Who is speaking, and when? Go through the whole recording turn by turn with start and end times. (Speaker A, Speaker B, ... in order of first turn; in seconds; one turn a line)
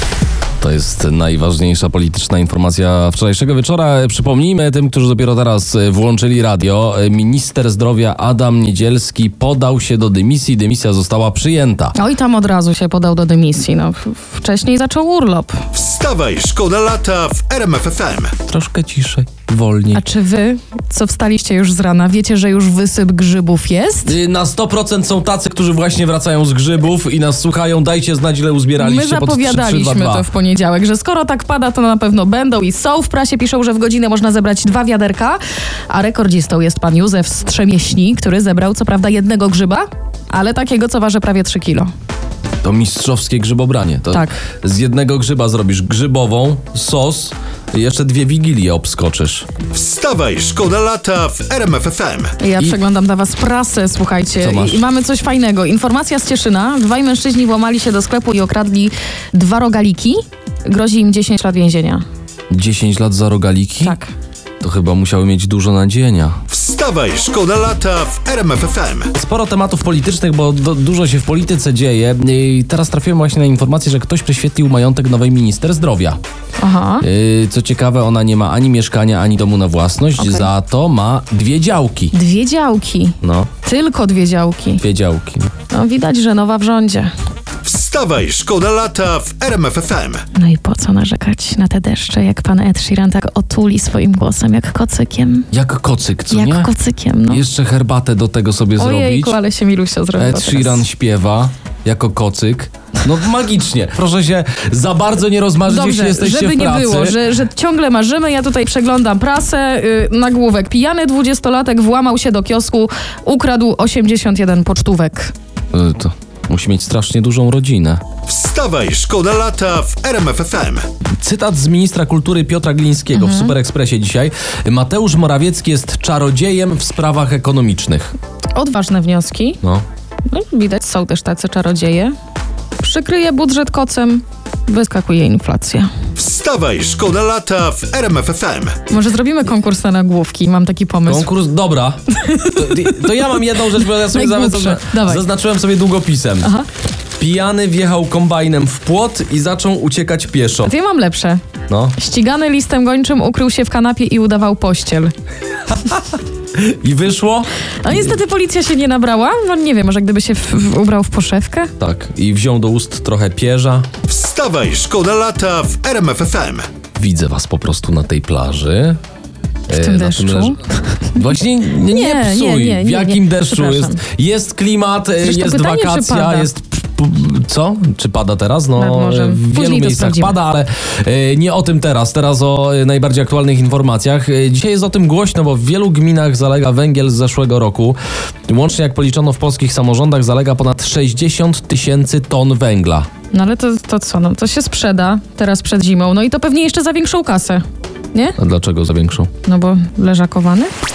Speaker A: 0.6-12.0
Speaker B: 11.9-15.6
Speaker C: 15.7-18.4
Speaker A: 18.5-20.0
Speaker B: 19.9-24.2
Speaker A: 24.1-30.3
Speaker B: 28.8-41.9
Speaker A: 42.6-49.5
Speaker B: 44.1-44.4
Speaker C: 49.7-52.4
Speaker B: 52.4-62.0
Speaker A: 54.4-54.8
Speaker A: 62.5-64.0
Speaker B: 63.8-64.1
Speaker A: 64.6-66.4
Speaker C: 66.5-69.1
Speaker A: 69.1-76.2
Speaker B: 76.6-77.1
Speaker A: 77.0-82.1
Speaker B: 80.2-80.5
Speaker B: 82.1-84.8
Speaker A: 83.2-83.5
Speaker A: 84.8-85.5
Speaker B: 85.7-87.1
Speaker C: 87.6-90.2
Speaker B: 90.3-95.5
Speaker A: 95.5-96.7
Speaker B: 96.3-97.4
Speaker A: 97.3-99.4
Speaker B: 98.8-100.8
Speaker A: 100.2-107.2
Speaker B: 105.7-115.3
Speaker A: 115.7-118.0
Speaker C: 118.3-120.9
Speaker A: 121.2-128.2
Speaker B: 123.1-123.6
Speaker B: 128.5-129.6
Speaker B: 130.3-132.1
Speaker B: 132.8-135.9
Speaker C: 136.2-138.8
Speaker B: 138.9-141.3
Speaker A: 141.1-146.5
Speaker B: 142.1-145.2
Speaker B: 146.4-146.7
Speaker A: 147.2-150.7
Speaker B: 150.6-151.4
Speaker A: 151.7-152.0
Speaker B: 151.9-155.1
Speaker A: 155.7-158.2
Speaker B: 157.8-161.7
Speaker A: 161.8-163.9
Speaker C: 164.1-166.7
Speaker A: 167.0-169.0
Speaker B: 169.7-171.2
Speaker A: 169.7-193.1
Speaker B: 171.9-174.0
Speaker B: 175.2-176.5
Speaker B: 178.8-180.4
Speaker B: 193.3-198.4
Speaker A: 198.4-199.3
Speaker B: 199.4-200.7